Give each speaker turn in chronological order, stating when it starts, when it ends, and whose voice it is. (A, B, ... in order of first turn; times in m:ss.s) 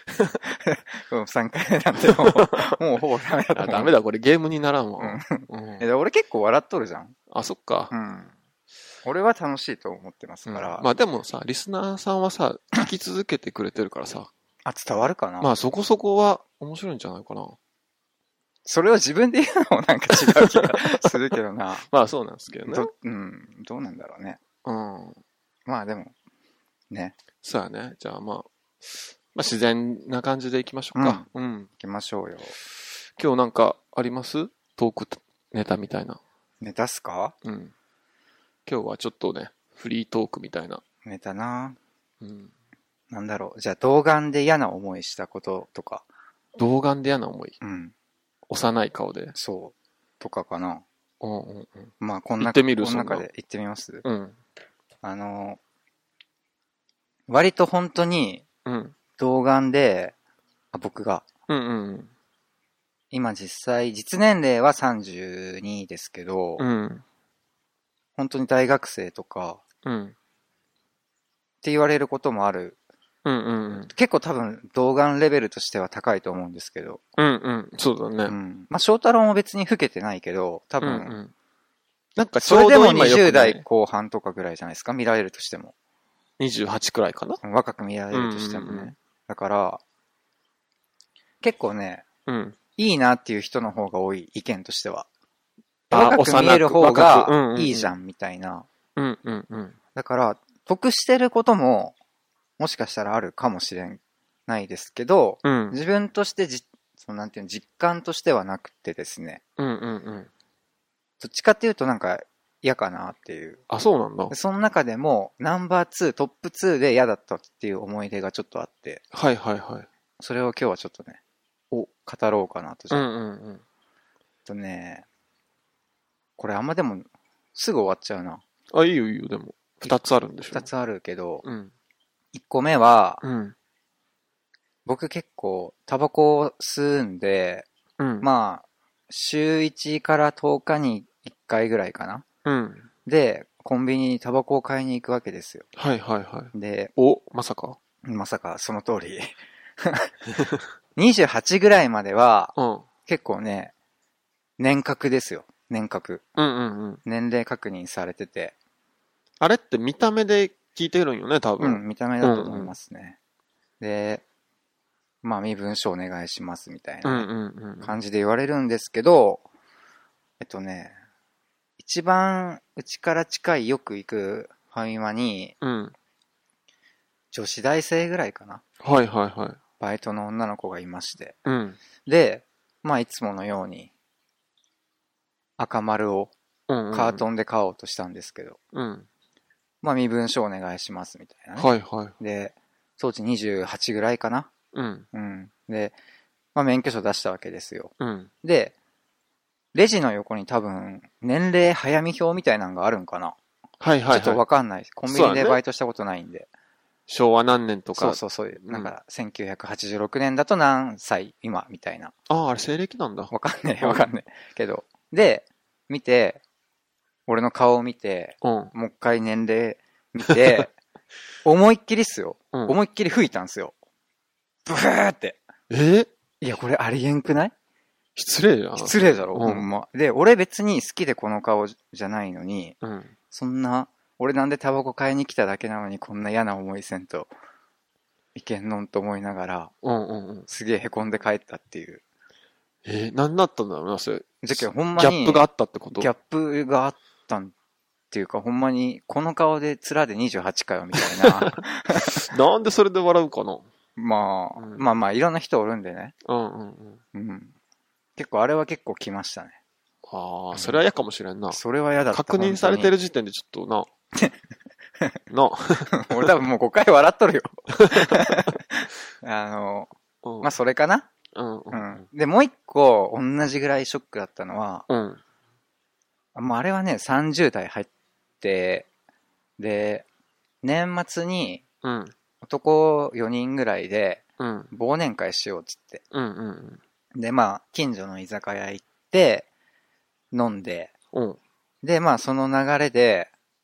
0:00.4-0:03.9 A
0:02.0-0:02.8 B
0:03.5-0:05.9 B
0:05.0-0:07.2 A
0:07.3-0:07.9 B
0:07.9-0:08.3 A
0:09.0-0:10.9 A
0:10.5-0:14.3 B
0:14.6-0:15.5 A
0:15.4-0:17.6 B
0:18.7-0:21.9 A
0:20.1-0:21.2 B
0:21.9-0:22.9 B
0:22.7-0:24.4 A
0:24.6-0:25.2 B
0:25.7-0:26.1 A
0:27.4-0:31.7 B
0:31.0-0:31.3 A
0:31.8-0:32.6 A
0:33.2-0:36.2 B
0:36.6-0:37.4 A
0:37.4-0:37.7 B
0:38.7-0:40.8 B
0:41.0-0:41.8 A
0:42.2-0:42.5 B
0:43.1-0:46.1 A
0:46.6-0:47.6 B
0:47.6-0:47.9 A
0:48.5-0:49.4 B
0:49.4-0:50.8 A
0:51.2-0:53.3 B
0:52.0-0:54.0 A
0:54.0-0:54.4 B
0:55.0-0:55.6 A
0:57.3-0:58.4 A
0:58.6-0:59.0 B
0:59.2-1:00.1 A
1:00.7-1:01.3 A
1:01.5-1:02.1 B
1:03.1-1:06.6 A
1:06.6-1:07.0 B
1:08.2-1:09.6 A
1:09.8-1:10.2 B
1:11.6-1:12.8 A
1:13.2-1:13.9 B
1:13.9-1:17.0 A
1:17.2-1:18.4 B
1:18.3-1:21.2 A
1:20.8-1:21.3 B
1:22.2-1:23.6 B
1:22.4-1:25.7 A
1:26.4-1:27.4 B
1:27.4-1:29.8 A
1:28.1-1:28.9 B
1:31.4-1:32.1 A
1:32.3-1:32.6 B
1:32.8-1:35.1 A
1:35.9-1:38.7 A
1:35.9-1:38.0 B
1:39.0-1:39.8 B
1:40.0-1:42.0 A
1:42.6-1:49.4 A
1:45.4-1:45.8 B
1:49.6-1:50.3 B
1:51.2-1:53.6 A
1:53.7-1:54.3 B
1:54.3-1:59.0 A
1:59.1-1:59.9 B
2:00.2-2:01.2 A
2:02.0-2:03.1 A
2:02.9-2:03.6 B
2:04.5-2:05.1 A
2:06.4-2:08.4 A
2:08.7-2:10.7 B
2:10.5-2:11.4 A
2:11.4-2:11.7 B
2:12.3-2:13.2 A
2:13.2-2:13.6 B
2:14.8-2:17.7 A
2:18.0-2:18.3 B
2:18.2-2:22.2 A
2:22.4-2:22.9 B
2:23.1-2:25.7 A
2:25.8-2:27.8 B
2:26.5-2:26.9 A
2:28.0-2:30.1 A
2:31.0-2:33.7 A
2:32.6-2:32.9 B
2:34.6-2:36.2 A
2:36.4-2:37.0 B
2:37.0-2:38.6 A
2:39.4-2:42.8 B
2:41.6-2:43.2 A
2:43.8-2:44.2 A
2:45.2-2:47.3 A
2:47.0-2:48.0 B
2:47.8-2:49.4 A
2:50.4-2:51.0 A
2:51.8-2:55.6 A
2:55.6-2:55.9 B
2:57.3-2:58.6 A
2:58.8-2:59.6 B
2:59.8-3:01.4 A
3:01.4-3:01.8 B
3:02.0-3:03.9 A
3:05.6-3:06.3 A
3:06.7-3:07.2 B
3:06.9-3:08.6 A
3:08.7-3:09.1 B
3:09.8-3:14.5 A
3:11.6-3:12.2 B
3:14.7-3:15.1 B
3:15.1-3:16.0 A
3:16.6-3:17.9 A
3:18.0-3:18.3 B
3:18.4-3:18.7 A
3:19.7-3:23.4 A
3:23.8-3:24.4 B
3:24.1-3:26.5 A
3:25.1-3:25.6 B
3:27.1-3:28.9 B
3:28.0-3:32.1 A
3:32.3-3:34.1 B
3:33.3-3:36.4 A
3:37.3-3:40.7 A
3:38.4-3:38.7 B
3:40.3-3:40.6 B
3:41.4-3:43.7 A
3:44.7-3:45.4 A
3:45.7-3:46.1 B
3:46.4-3:47.5 A
3:48.2-3:49.7 B
3:48.8-3:52.8 A
3:52.8-3:53.1 B
3:53.3-3:57.3 A
3:58.4-3:59.7 A
3:59.8-4:00.5 B
4:00.5-4:02.0 A
4:02.8-4:06.1 B
4:04.4-4:07.5 A
4:08.1-4:12.3 A
4:11.0-4:13.7 B
4:14.0-4:16.2 A
4:14.6-4:14.9 B
4:16.2-4:17.0 B
4:17.1-4:17.5 A
4:18.2-4:19.6 A
4:20.1-4:23.9 B
4:20.5-4:20.8 A
4:21.5-4:22.9 A
4:25.3-4:26.3 B
4:25.9-4:31.1 A
4:27.8-4:28.5 B
4:30.2-4:30.5 B
4:31.3-4:32.0 B
4:31.7-4:34.9 A
4:34.9-4:35.2 B
4:36.4-4:37.9 A
4:38.4-4:38.9 A
4:39.6-4:40.1 A
4:40.6-4:41.6 A
4:41.8-4:42.1 B
4:42.4-4:46.0 A
4:44.4-4:44.7 B
4:46.1-4:46.8 B
4:47.2-4:49.5 A
4:50.3-4:50.9 A
4:51.1-4:51.4 B
4:51.8-4:53.3 A